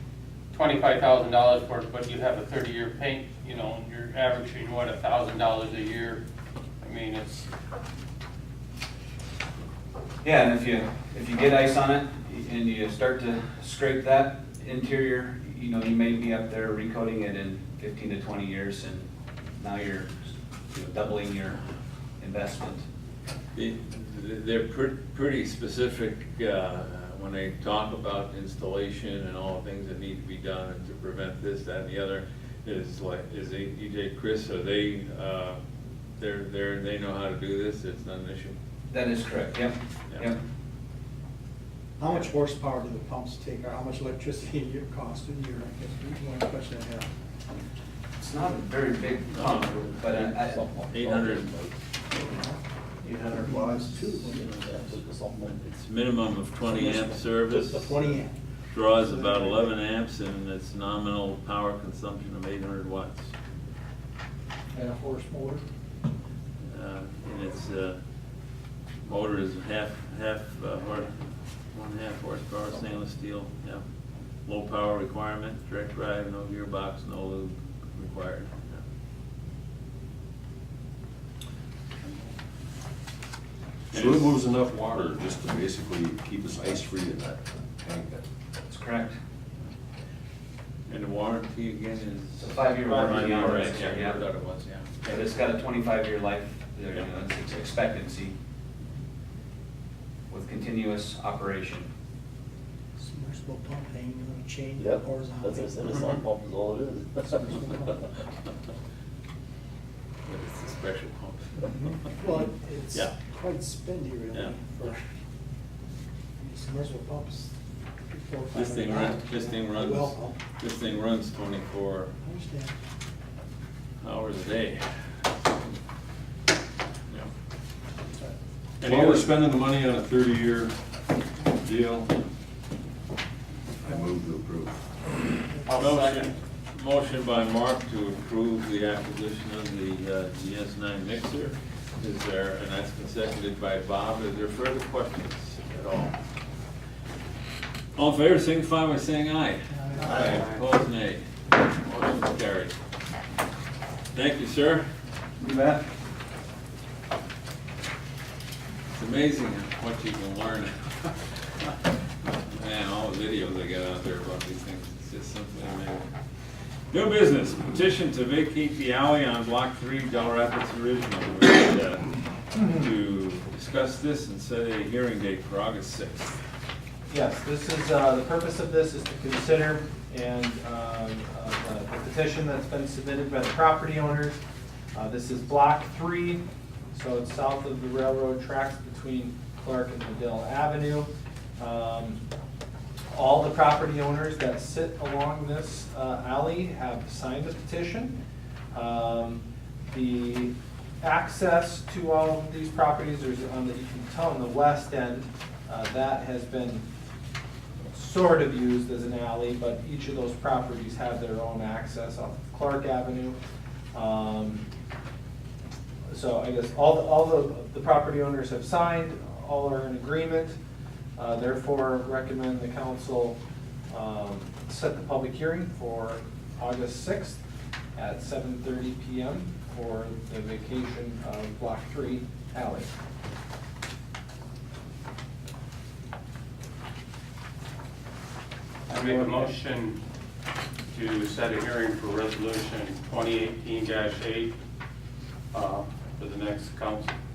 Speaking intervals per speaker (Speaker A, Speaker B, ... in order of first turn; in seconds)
Speaker A: 0.5-6.2, 6.8-7.5, 135.7-136.3, 150.0-150.6, 238.9-240.0, 240.9-244.5, 245.5-247.1
Speaker B: 10.2-21.6, 22.2-22.8, 38.9-40.4, 48.2-51.0, 88.7-89.2, 92.4-94.2, 95.1-98.3, 100.3-101.9
Speaker C: 23.6-35.6, 36.2-38.5, 49.4-49.6, 50.9-51.6, 54.3-55.0, 55.5-58.2, 58.7-63.3, 66.6-68.0, 69.0-73.8, 74.5-78.8, 83.9-84.3, 90.9-95.1, 110.3-111.7, 118.5-122.1, 124.0-124.8, 128.8-129.3, 135.7-146.2, 147.9-152.7, 154.1-154.9, 158.9-161.2, 162.5-166.1, 166.9-176.4
Speaker D: 42.0-47.1, 52.1-54.5, 56.6-58.4, 59.0-59.5, 103.0-106.3, 107.2-108.0, 111.8-115.1, 116.4-117.5, 118.1-120.4, 122.2-122.8, 149.7-150.2
Speaker E: 49.8-51.7, 54.3-55.7, 104.8-107.8
Speaker F: 83.9-88.2, 128.8-130.8, 131.5-132.1, 133.8-134.8
Speaker G: 177.1-184.4, 184.9-186.4, 186.9-192.2, 193.1-198.2, 198.7-206.9, 207.9-213.4, 213.9-214.7, 216.1-220.6, 221.2-223.4, 223.9-227.4, 227.9-232.9, 238.9-239.5